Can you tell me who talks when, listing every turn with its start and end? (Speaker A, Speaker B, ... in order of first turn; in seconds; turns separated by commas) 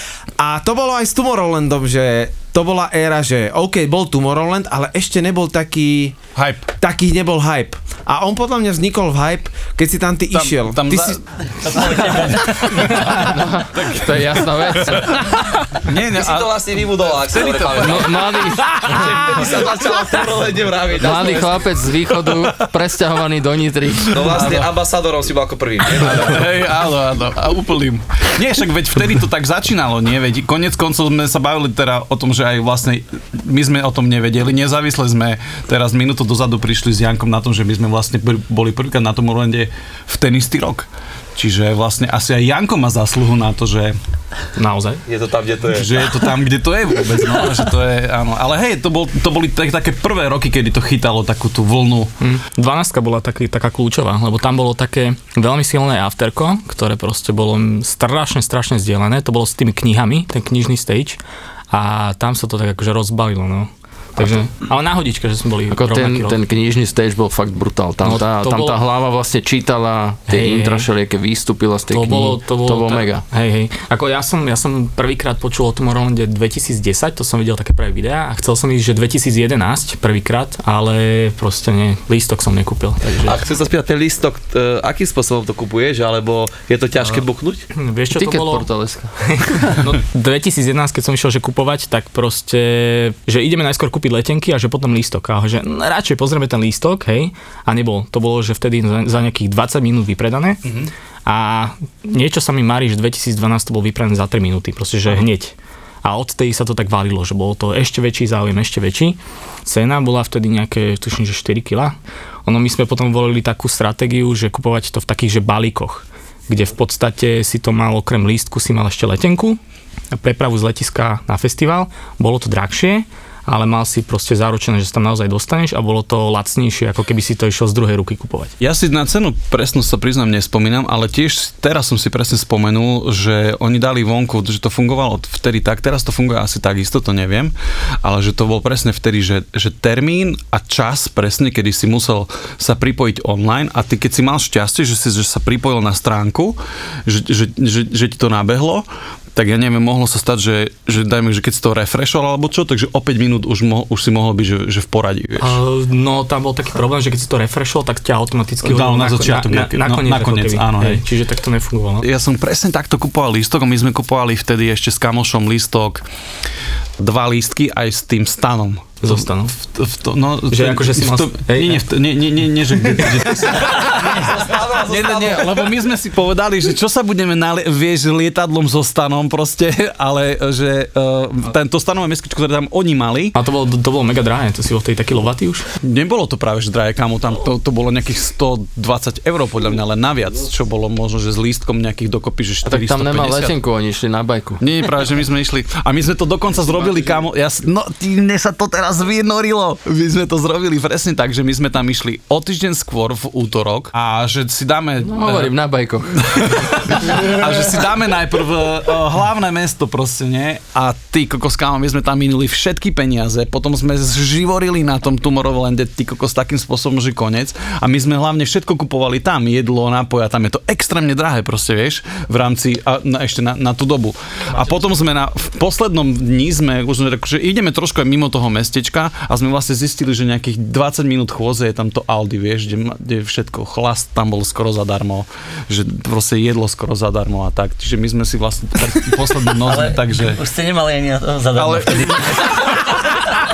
Speaker A: 0.4-6.2, Speaker B: 6.3-6.7, Speaker A: 6.8-11.2, Speaker B: 10.3-13.1, Speaker C: 11.7-12.5, Speaker D: 13.1-15.2, Speaker B: 13.7-15.1, Speaker B: 15.7-18.2, Speaker E: 16.1-21.9, Speaker D: 17.8-19.2, Speaker D: 21.0-24.1, Speaker E: 24.1-26.4, Speaker B: 24.2-24.6, Speaker B: 25.9-44.0, Speaker F: 44.5-45.0, Speaker E: 45.1-46.0, Speaker B: 45.7-52.1, Speaker F: 52.2-61.2, Speaker F: 61.7-66.4, Speaker D: 65.7-73.2, Speaker F: 68.0-68.8, Speaker F: 70.3-70.9, Speaker F: 71.9-83.3, Speaker E: 83.2-87.7, Speaker F: 87.7-88.7, Speaker D: 88.1-89.7, Speaker F: 89.3-100.6, Speaker B: 100.6-100.9, Speaker F: 101.2-119.6, Speaker F: 120.1-128.5, Speaker B: 128.6-155.6, Speaker F: 155.4-162.1, Speaker B: 158.6-161.0, Speaker B: 162.0-166.0, Speaker B: 167.0-183.3, Speaker F: 169.0-169.6, Speaker F: 170.5-171.8, Speaker E: 173.8-175.7, Speaker F: 183.3-185.6, Speaker B: 185.8-193.5, Speaker D: 192.7-194.6, Speaker B: 194.6-205.5, Speaker E: 196.7-197.2, Speaker D: 205.0-206.2, Speaker B: 206.2-240.4, Speaker F: 224.5-224.8, Speaker C: 239.6-242.7, Speaker B: 241.5-243.2